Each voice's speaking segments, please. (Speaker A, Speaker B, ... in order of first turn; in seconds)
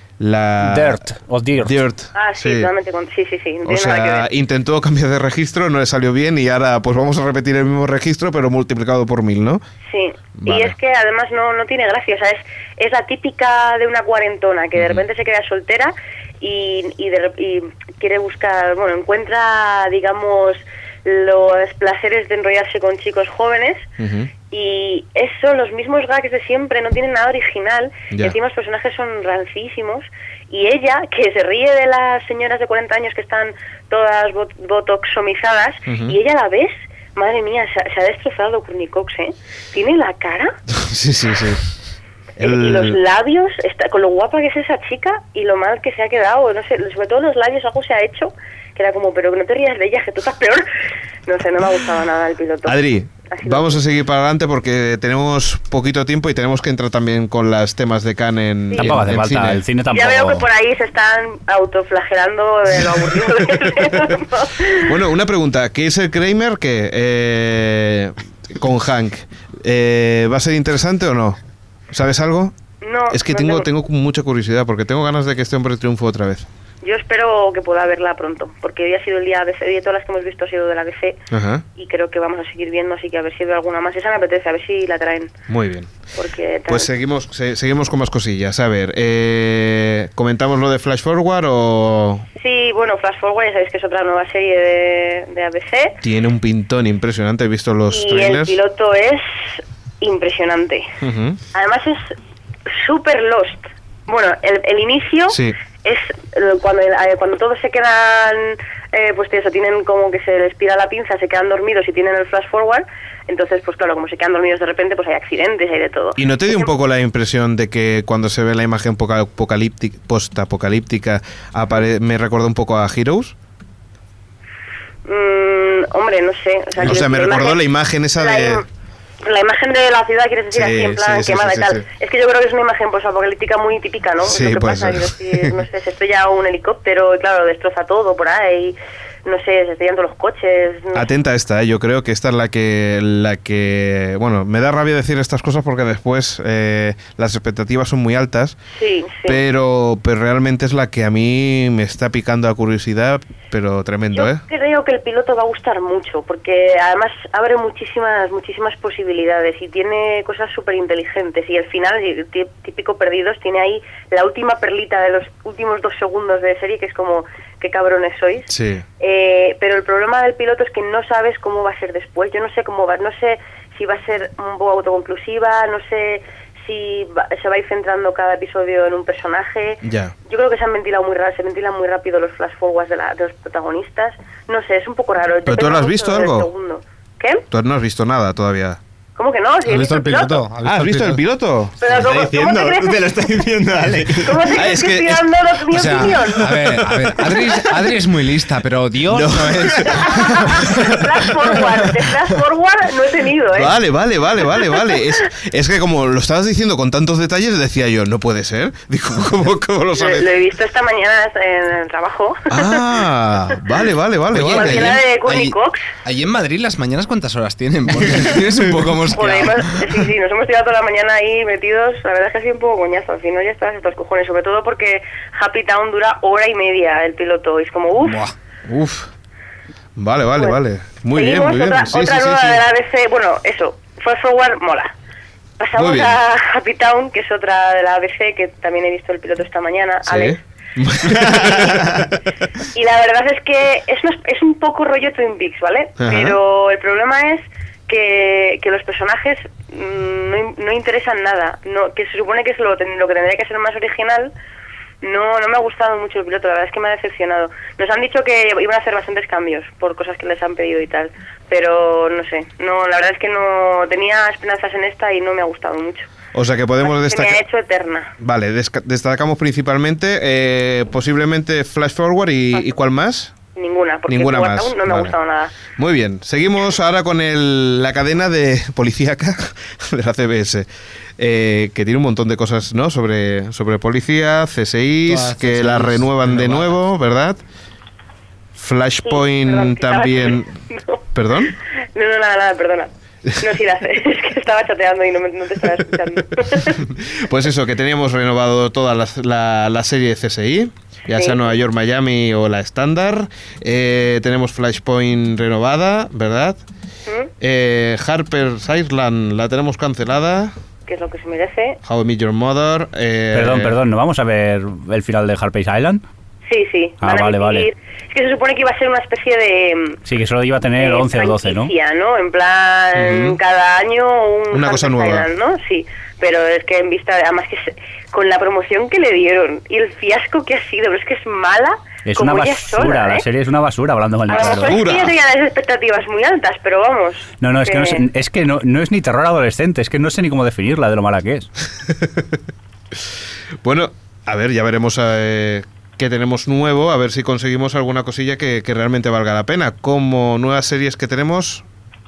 Speaker A: 0.2-1.0, 1.6-2.7, 3.6-9.6, 10.4-10.7, 14.8-15.0, 24.0-24.3, 35.9-36.1, 40.7-41.6, 42.4-43.0, 52.6-59.1, 64.8-71.4, 71.9-72.5, 73.1-76.5, 81.3-81.6, 85.5-85.9, 86.7-92.2, 96.0-98.5, 101.0-101.4, 105.3-105.5, 116.2-123.3, 126.8-128.6, 130.5-131.8, 134.2-135.6, 140.9-148.6, 149.2-154.4, 168.5-168.8, 179.8-180.1, 185.5-186.5, 187.5-188.8, 190.6-192.1, 194.5-195.2, 199.1-201.7, 203.5-210.3, 212.5-215.0, 228.7-229.1, 230.0-232.6, 235.8-236.1, 240.1-242.1, 246.0-246.4, 266.3-267.4, 268.2-273.3, 274.1-275.1, 275.7-280.7, 281.2-287.4, 288.6-290.5, 291.1-291.5, 297.0-306.6, 307.4-310.5, 311.8-313.7, 322.9-323.4, 324.5-325.3, 334.3-335.1, 343.6-351.6
Speaker B: 0.6-1.8, 58.8-60.4, 313.3-316.0, 317.0-317.7, 320.1-321.7, 332.1-334.8, 337.4-341.5
Speaker C: 2.1-4.2, 9.9-23.9, 24.5-40.6, 42.4-50.6, 51.3-52.8, 53.3-53.8, 58.7-59.0, 59.9-64.9, 72.8-73.7, 76.8-81.2, 81.8-85.3, 86.1-86.9, 92.4-96.0, 97.9-100.9, 101.5-102.1, 102.7-116.7, 125.0-127.6, 128.2-128.6, 129.2-141.1, 148.8-149.4, 154.1-187.4, 189.2-190.4, 191.8-193.3, 194.2-196.6, 197.2-197.7, 199.9-203.7, 204.7-205.0, 209.9-212.8, 214.5-215.8, 219.1-228.2, 231.1-234.9, 235.6-240.4, 241.1-242.0, 242.7-254.3, 255.0-266.1, 266.8-268.1, 273.5-275.5, 289.0-291.0, 291.9-296.8, 301.1-301.4, 307.1-307.3, 310.9-311.8, 316.5-320.0, 320.8-333.2, 334.3-338.1
Speaker D: 59.0-59.6, 189.6-191.2, 195.7-200.8, 214.3-220.1, 228.0-228.3, 285.0-286.8
Speaker E: 191.9-194.6